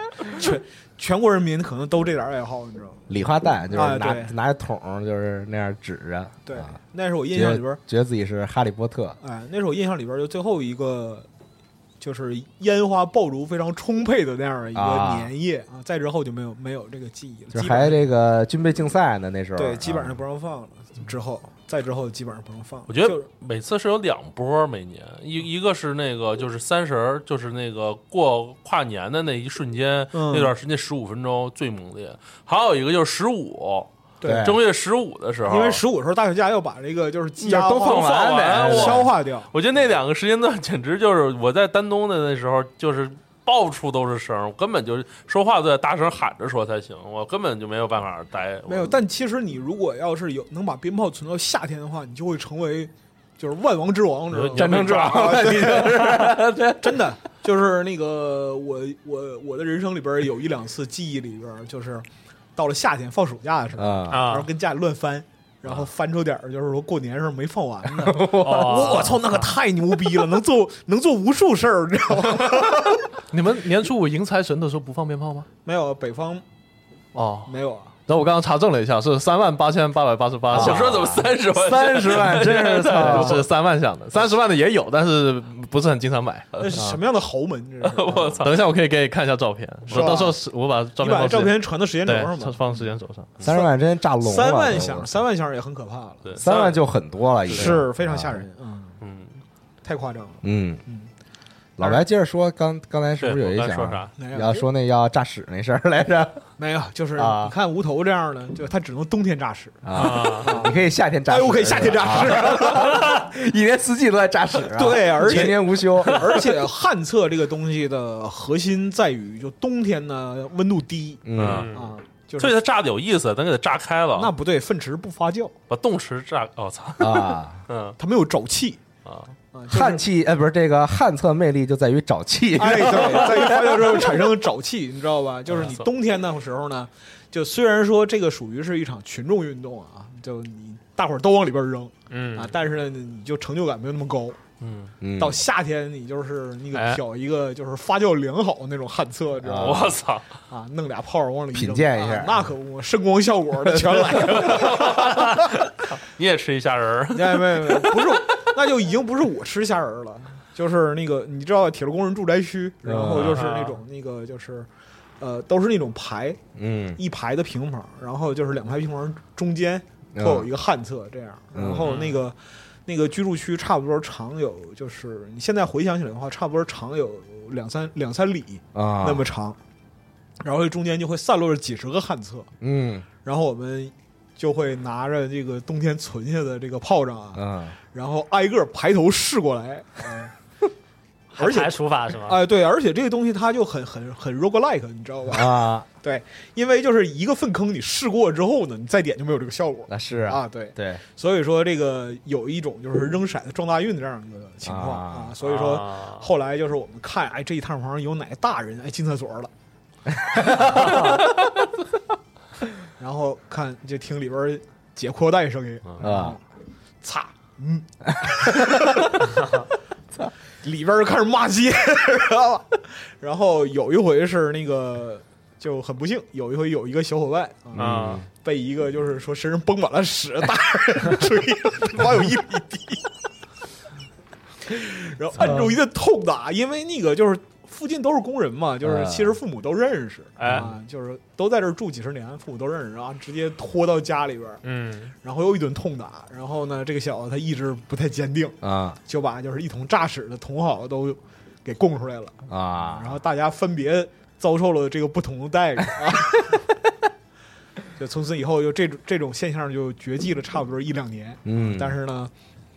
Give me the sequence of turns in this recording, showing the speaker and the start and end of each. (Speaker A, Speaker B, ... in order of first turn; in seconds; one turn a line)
Speaker A: 0.2-3.0
Speaker B: 3.1-6.7
Speaker A: 3.7-4.3
Speaker A: 6.5-7.8
Speaker B: 7.3-9.2
Speaker A: 9.2-11.3
Speaker A: 12.0-18.0
Speaker B: 14.7-15.3
Speaker B: 17.5-20.2
Speaker A: 19.6-23.2
Speaker C: 22.9-35.8
Speaker A: 30.1-30.5
Speaker A: 34.2-34.5
Speaker B: 34.2-34.6
Speaker A: 35.5-39.5
Speaker B: 37.4-39.1
Speaker C: 37.8-49.0
Speaker A: 48.7-62.0
Speaker C: 54.3-55.7
Speaker B: 54.5-57.1
Speaker A: 62.5-73.0
Speaker B: 63.8-64.3
Speaker D: 64.1-64.5
Speaker B: 67.9-69.1
Speaker D: 68.4-69.5
Speaker E: 73.3-75.5
Speaker A: 75.6-76.4
Speaker E: 77.1-77.5
Speaker A: 77.5-77.9
Speaker E: 78.1-81.2
Speaker C: 80.5-83.4
Speaker B: 80.5-83.4
Speaker E: 82.9-87.0
Speaker A: 86.6-88.5
Speaker C: 87.8-88.6
Speaker E: 88.4-93.3
Speaker C: 89.9-90.2
Speaker A: 89.9-90.4
Speaker A: 91.0-92.8
Speaker B: 93.4-95.1
Speaker A: 93.4-96.5
Speaker C: 96.2-96.8
Speaker B: 96.4-98.5
Speaker C: 97.5-97.8
Speaker A: 97.5-99.0
Speaker C: 99.0-99.4
Speaker A: 99.8-101.1
Speaker B: 100.4-100.8
Speaker B: 101.8-106.4
Speaker C: 103.2-104.1
Speaker A: 104.2-104.7
Speaker A: 106.6-113.1
Speaker B: 107.2-107.5
Speaker B: 109.8-116.4
Speaker D: 109.9-110.6
Speaker A: 114.6-122.5
Speaker B: 121.2-121.7
Speaker C: 121.3-121.7
Speaker D: 121.5-121.9
Speaker C: 122.4-124.3
Speaker A: 124.2-125.5
Speaker C: 125.7-128.0
Speaker B: 127.0-127.6
Speaker A: 128.0-128.8
Speaker C: 129.0-129.3
Speaker A: 129.5-130.0
Speaker B: 129.7-134.2
Speaker A: 132.6-144.4
Speaker C: 135.5-135.8
Speaker D: 142.1-142.6
Speaker C: 144.6-144.9
Speaker B: 145.0-145.4
Speaker A: 145.2-149.9
Speaker D: 146.7-147.0
Speaker B: 149.4-149.9
Speaker C: 149.6-150.3
Speaker A: 150.5-155.5
Speaker B: 151.5-152.4
Speaker B: 153.7-154.4
Speaker C: 154.4-158.2
Speaker A: 157.1-164.7
Speaker B: 162.8-163.4
Speaker D: 163.3-163.8
Speaker A: 165.2-166.4
Speaker B: 166.6-167.0
Speaker A: 166.9-179.6
Speaker B: 170.1-170.5
Speaker B: 171.5-171.9
Speaker D: 171.9-172.2
Speaker B: 178.7-179.2
Speaker A: 180.4-182.5
Speaker B: 182.6-183.1
Speaker A: 183.2-190.3
Speaker B: 187.3-187.8
Speaker D: 191.3-192.4
Speaker A: 191.4-209.5
Speaker B: 195.3-195.9
Speaker B: 199.9-201.0
Speaker B: 204.6-205.3
Speaker D: 205.4-206.2
Speaker B: 210.1-211.2
Speaker D: 210.8-211.2
Speaker A: 213.0-216.4
Speaker B: 216.0-216.4
Speaker A: 217.0-219.4
Speaker B: 218.1-218.6
Speaker A: 220.6-233.0
Speaker B: 227.7-228.2
Speaker D: 227.8-228.2
Speaker A: 234.6-244.6
Speaker D: 235.4-235.7
Speaker B: 238.8-239.4
Speaker D: 240.4-240.7
Speaker D: 244.6-245.1
Speaker A: 245.2-256.6
Speaker B: 248.6-249.0
Speaker B: 252.5-253.2
Speaker A: 257.9-262.3
Speaker B: 261.4-262.0